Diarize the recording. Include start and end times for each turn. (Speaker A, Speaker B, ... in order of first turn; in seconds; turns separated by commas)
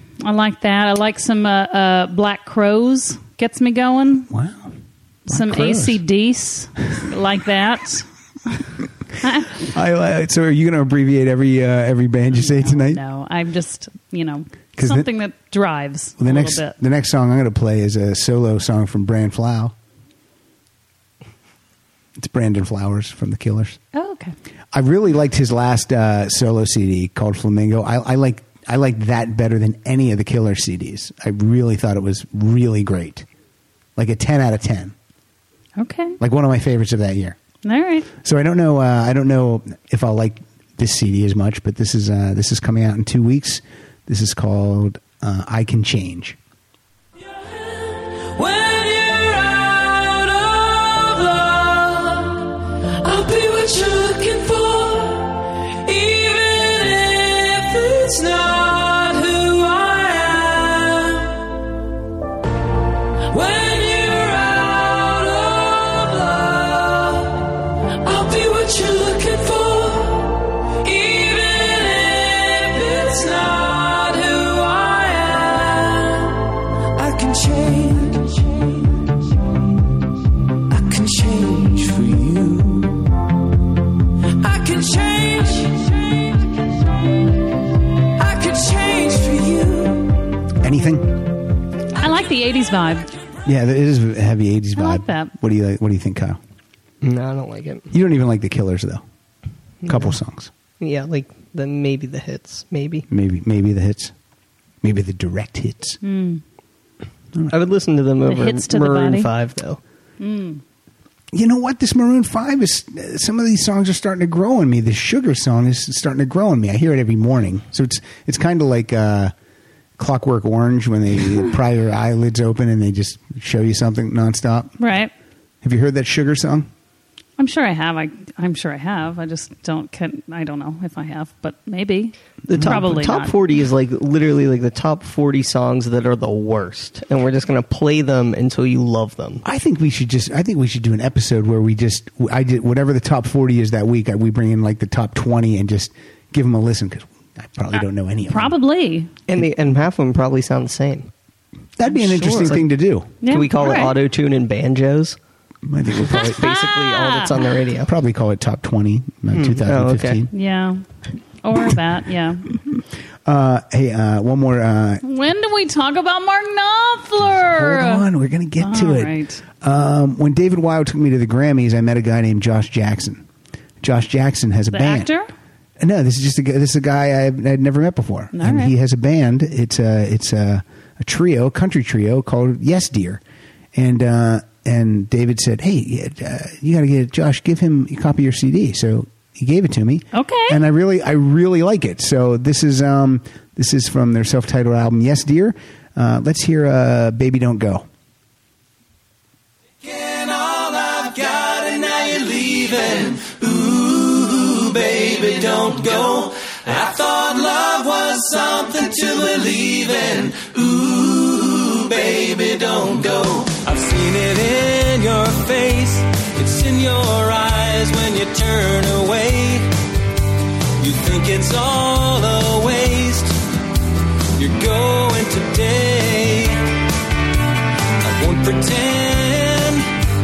Speaker A: 0.2-4.3, Speaker B: 4.3-4.7, Speaker A: 5.3-8.7, Speaker B: 5.3-6.0, Speaker A: 9.2-9.6, Speaker B: 9.5-13.0, Speaker A: 12.3-16.8, Speaker B: 14.8-15.1, Speaker B: 16.2-19.7, Speaker B: 22.2-23.8, Speaker A: 23.9-24.4, Speaker B: 24.7-33.3, Speaker B: 34.0-35.0, Speaker A: 35.8-36.2, Speaker B: 36.2-37.4, Speaker A: 37.6-38.1, Speaker B: 38.2-46.4, Speaker C: 48.3-52.4, Speaker C: 53.0-61.4, Speaker C: 63.3-67.4, Speaker C: 68.0-76.4, Speaker C: 77.0-78.8, Speaker C: 80.7-83.0, Speaker C: 84.4-86.0, Speaker C: 88.2-90.2, Speaker B: 90.6-91.3, Speaker A: 92.0-93.1, Speaker B: 93.5-96.4, Speaker A: 94.8-95.3, Speaker D: 97.0-97.9, Speaker B: 97.9-99.0, Speaker D: 99.9-100.2, Speaker B: 99.9-100.5, Speaker D: 100.8-103.1, Speaker B: 103.1-104.1, Speaker B: 104.8-106.0, Speaker A: 106.0-106.4, Speaker D: 107.5-109.8, Speaker A: 108.3-109.3, Speaker A: 110.2-110.6, Speaker B: 111.3-119.3, Speaker B: 120.0-124.7, Speaker A: 124.8-125.1, Speaker B: 125.6-126.7, Speaker A: 127.4-133.4, Speaker D: 132.5-139.4, Speaker B: 132.5-132.9, Speaker B: 139.4-148.5, Speaker A: 148.3-149.1, Speaker D: 149.3-151.1, Speaker B: 151.8-153.2, Speaker A: 151.9-152.6, Speaker D: 152.2-152.7, Speaker A: 153.2-154.0, Speaker D: 153.2-155.2, Speaker B: 155.7-156.4, Speaker D: 155.9-157.9, Speaker A: 156.1-157.6, Speaker B: 157.8-160.3, Speaker D: 159.3-160.3, Speaker A: 160.3-160.8, Speaker A: 161.4-162.5, Speaker B: 163.2-165.0, Speaker A: 165.0-168.1, Speaker B: 167.3-173.3, Speaker A: 168.6-169.4, Speaker B: 173.8-175.1, Speaker A: 174.7-175.3, Speaker B: 175.8-183.2, Speaker A: 178.3-178.7, Speaker B: 183.7-197.9, Speaker A: 190.1-190.6, Speaker E: 199.8-219.7, Speaker E: 220.8-223.4, Speaker E: 224.4-226.6, Speaker E: 228.0-229.9